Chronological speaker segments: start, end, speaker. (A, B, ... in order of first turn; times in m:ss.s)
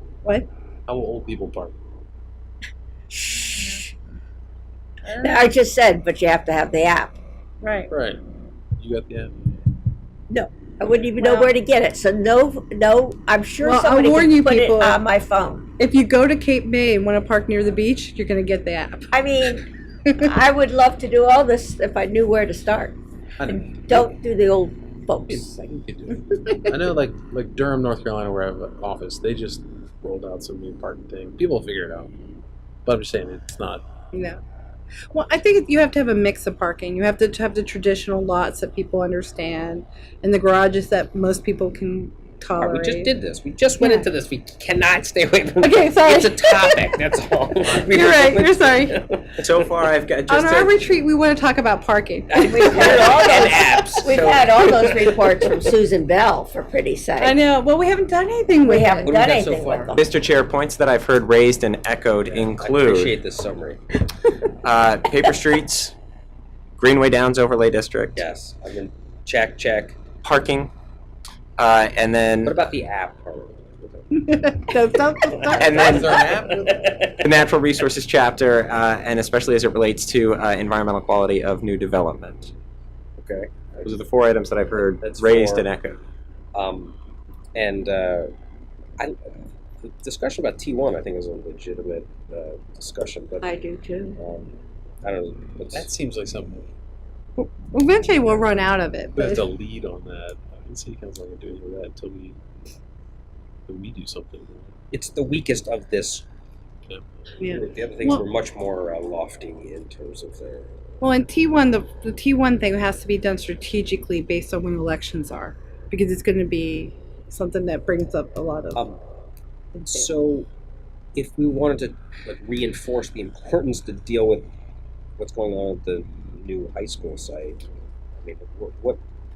0:00.9-0:01.8 A
0:03.1-0:03.8 B
0:03.5-0:03.8 C
0:05.0-0:05.5 C
0:05.2-0:07.2 B
0:07.6-0:07.9 C
0:07.9-0:08.2 A
0:08.8-0:09.3 A
0:10.3-0:15.7 B
0:11.2-0:11.5 C
0:13.6-0:15.0 C
0:15.8-0:19.1 C
0:19.1-0:25.9 B
0:23.4-0:24.1 A
0:25.3-0:32.1 A
0:32.8-0:33.9 A
0:34.1-0:34.4 C
0:35.1-0:43.1 C
0:42.6-0:49.7 D
0:43.8-0:44.1 C
0:45.6-0:46.9 C
0:47.9-0:49.0 C
0:49.4-0:50.8 E
0:50.3-0:53.2 C
0:52.3-0:55.5 D
0:52.4-0:57.4 B
0:57.2-0:59.1 C
0:58.6-1:00.0 B
0:59.1-1:00.0 D
0:59.9-1:03.2 E
1:02.2-1:04.0 D
1:04.6-1:06.0 E
1:06.8-1:08.2 E
1:08.2-1:10.0 D
1:10.2-1:10.7 E
1:11.6-1:12.6 E
1:12.4-1:14.1 D
1:14.1-1:16.2 C
1:15.3-1:17.3 D
1:15.6-1:16.2 E
1:15.8-1:16.9 A
1:17.2-1:22.5 E
1:23.2-1:23.9 D
1:23.8-1:26.0 E
1:24.8-1:25.7 D
1:26.5-1:27.0 D
1:27.6-1:28.3 D
1:29.0-1:33.5 D
1:33.4-1:34.2 B
1:34.2-1:35.9 D
1:35.7-1:36.7 A
1:37.4-1:39.4 C
1:39.2-1:42.4 A
1:43.7-1:44.7 A
1:44.9-1:46.2 D
1:47.4-1:48.2 C
1:47.5-1:50.7 D
1:51.0-1:58.8 C
1:58.8-1:59.0 D
1:59.7-2:00.1 C
1:59.9-2:00.5 D
2:01.2-2:04.5 D
2:05.2-2:09.0 D